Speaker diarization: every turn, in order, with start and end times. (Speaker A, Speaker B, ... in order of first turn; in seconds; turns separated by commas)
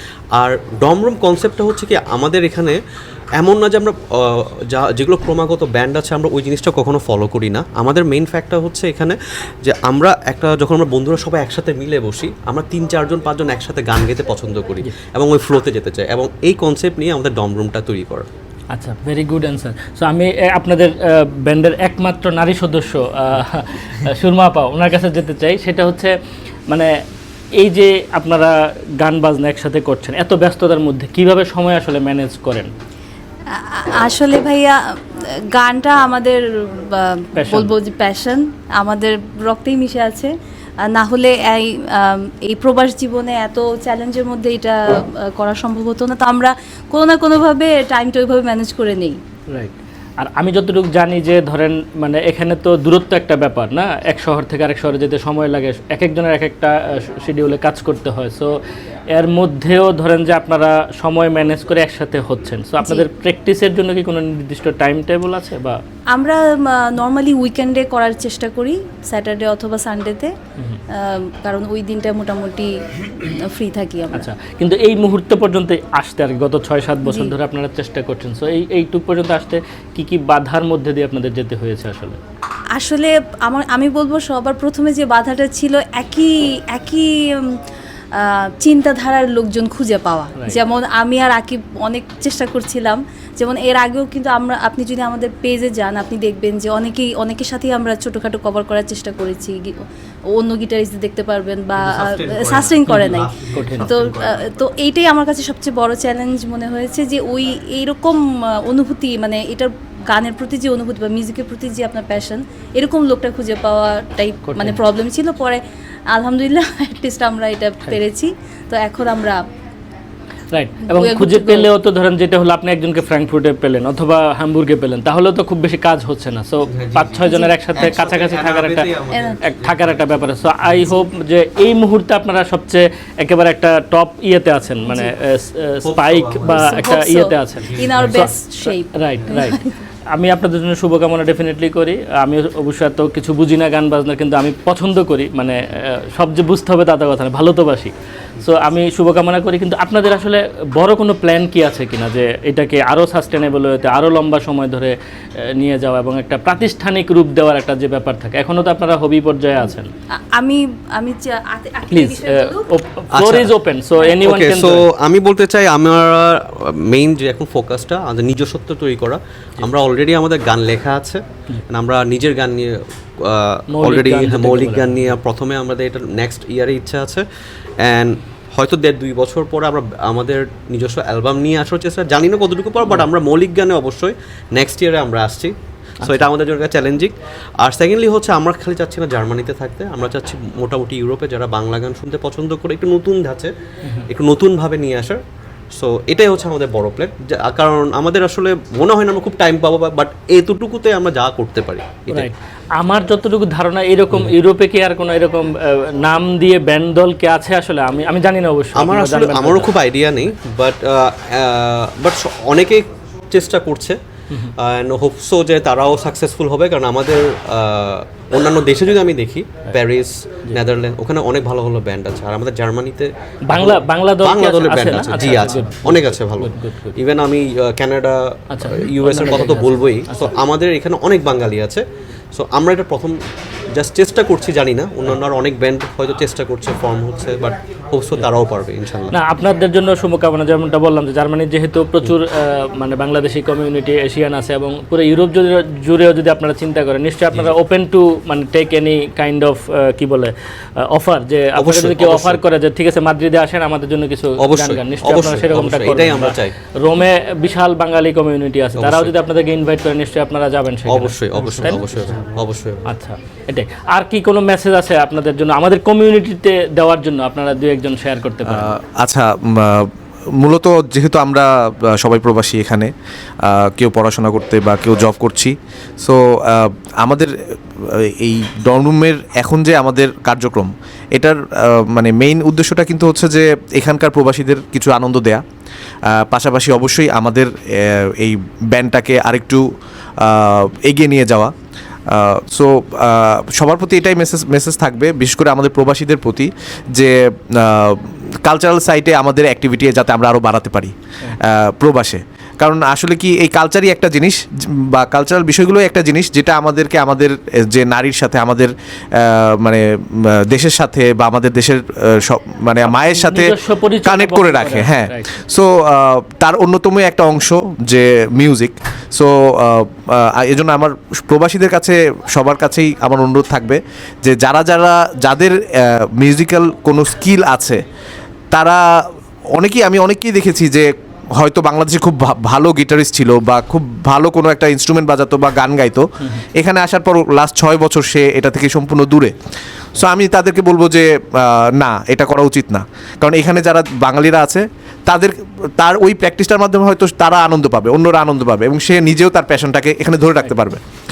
Speaker A: 0.3-2.8, Speaker A: 3.4-18.3, Speaker B: 18.7-26.1, Speaker B: 27.6-32.7, Speaker C: 33.5-34.8, Speaker C: 35.5-40.3, Speaker B: 37.4-37.7, Speaker C: 40.9-49.2, Speaker B: 49.5-58.5, Speaker B: 59.1-65.8, Speaker C: 62.8-63.1, Speaker C: 66.1-70.3, Speaker C: 71.0-74.3, Speaker B: 74.1-82.2, Speaker C: 77.0-77.3, Speaker C: 82.8-87.5, Speaker C: 88.2-99.8, Speaker C: 100.3-119.4, Speaker A: 101.8-104.5, Speaker B: 102.9-103.9, Speaker B: 114.5-114.8, Speaker B: 120.5-128.9, Speaker C: 120.9-121.7, Speaker A: 126.7-129.9, Speaker C: 127.2-127.8, Speaker C: 129.1-129.4, Speaker B: 129.4-139.6, Speaker A: 135.8-136.9, Speaker C: 136.4-139.8, Speaker A: 137.6-138.3, Speaker B: 140.1-154.9, Speaker B: 155.6-159.9, Speaker C: 160.1-162.7, Speaker B: 161.9-164.8, Speaker A: 163.1-163.5, Speaker A: 164.2-177.2, Speaker B: 173.7-175.1, Speaker A: 177.8-193.5, Speaker B: 186.0-186.3, Speaker A: 194.1-195.2, Speaker A: 195.7-202.3, Speaker B: 202.1-209.7, Speaker A: 208.7-214.0, Speaker A: 214.6-233.2, Speaker B: 223.5-226.9, Speaker B: 228.5-230.3, Speaker A: 233.7-239.1, Speaker B: 239.1-261.9, Speaker A: 251.6-252.4, Speaker A: 254.4-256.5, Speaker A: 258.8-259.1, Speaker A: 260.9-262.8, Speaker B: 262.9-268.7, Speaker D: 268.4-272.9, Speaker D: 273.4-277.3, Speaker D: 277.9-285.4, Speaker D: 286.1-289.6, Speaker D: 290.2-291.5, Speaker D: 292.1-327.8, Speaker B: 312.9-315.3, Speaker D: 328.5-339.3, Speaker D: 339.9-350.8